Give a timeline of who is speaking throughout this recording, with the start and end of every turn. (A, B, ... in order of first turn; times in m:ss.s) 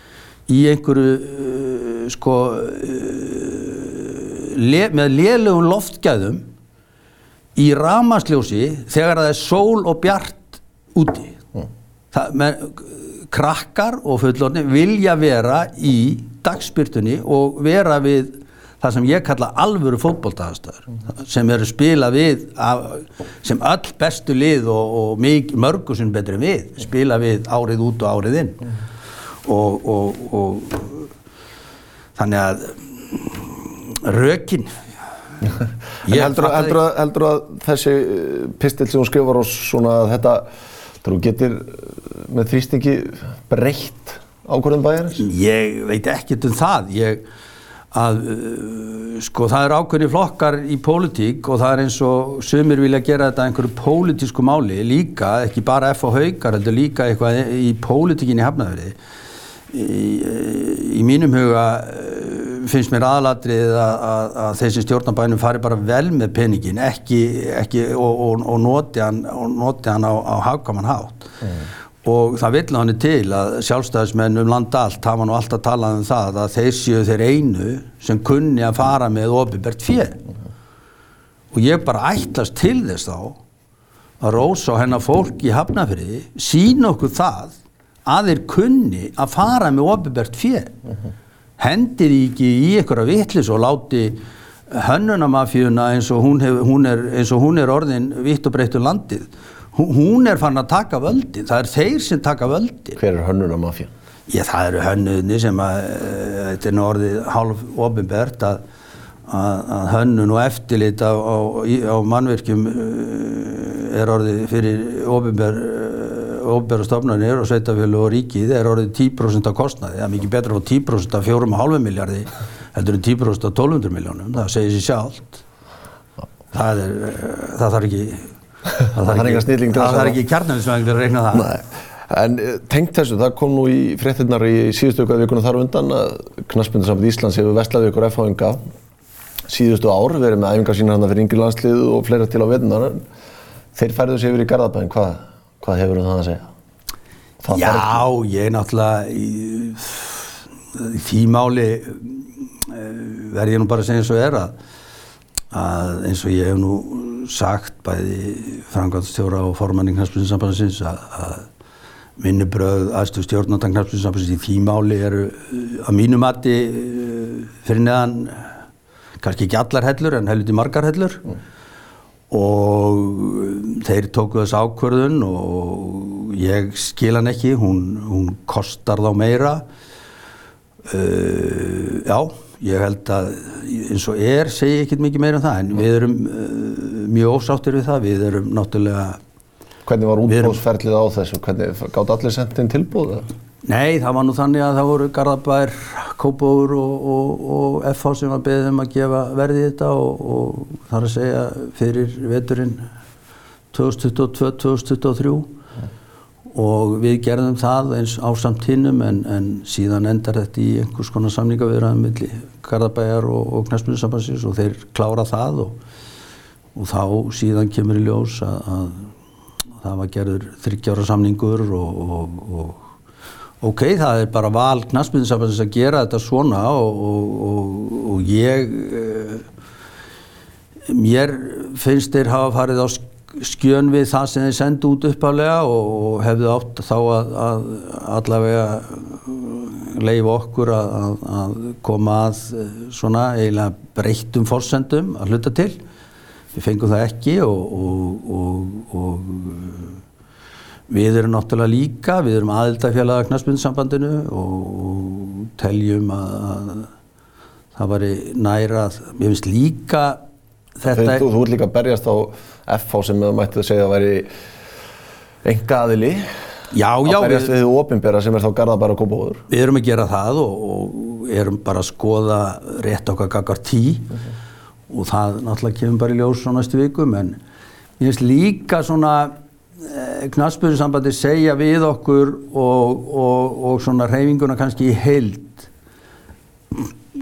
0:00.5-0:06.4 A
0:07.6-0:11.4 A
0:12.1-0:28.6 A
0:29.4-0:31.1 A
0:32.2-0:34.7 A
0:36.0-0:36.8 A
0:36.1-0:40.5 B
0:41.0-0:45.2 B
0:45.2-0:47.2 A
0:47.9-0:59.0 A
0:59.7-1:11.4 A
1:12.0-1:20.2 A
1:21.5-1:23.4 A
1:24.2-1:30.7 A
1:31.6-1:34.2 A
1:34.7-1:43.0 A
1:43.0-1:43.9 B
1:44.3-1:48.6 A
1:49.3-2:05.4 A
2:06.5-2:08.3 A
2:08.8-2:11.5 A
2:09.0-2:10.2 B
2:11.3-2:18.6 B
2:19.5-2:23.0 B
2:23.7-2:26.5 B
2:27.4-2:28.0 B
2:27.5-2:34.5 A
2:35.5-2:41.5 A
2:42.2-2:48.5 A
2:49.2-2:51.2 A
2:52.3-2:59.6 A
3:00.8-3:09.2 A
3:09.8-3:13.2 B
3:10.3-3:10.6 A
3:13.6-3:22.8 A
3:23.7-3:25.5 A
3:26.5-3:35.8 A
3:36.7-3:39.1 A
3:39.8-3:42.8 A
3:43.6-3:49.4 A
3:50.9-4:05.8 A
4:06.5-4:10.0 A
4:10.9-4:16.9 A
4:17.7-4:20.2 A
4:20.8-4:21.2 A
4:20.9-4:24.3 B
4:25.4-4:26.3 B
4:26.7-4:27.5 A
4:27.0-4:29.4 B
4:29.5-4:34.1 A
4:34.9-4:37.4 A
4:38.0-4:45.7 A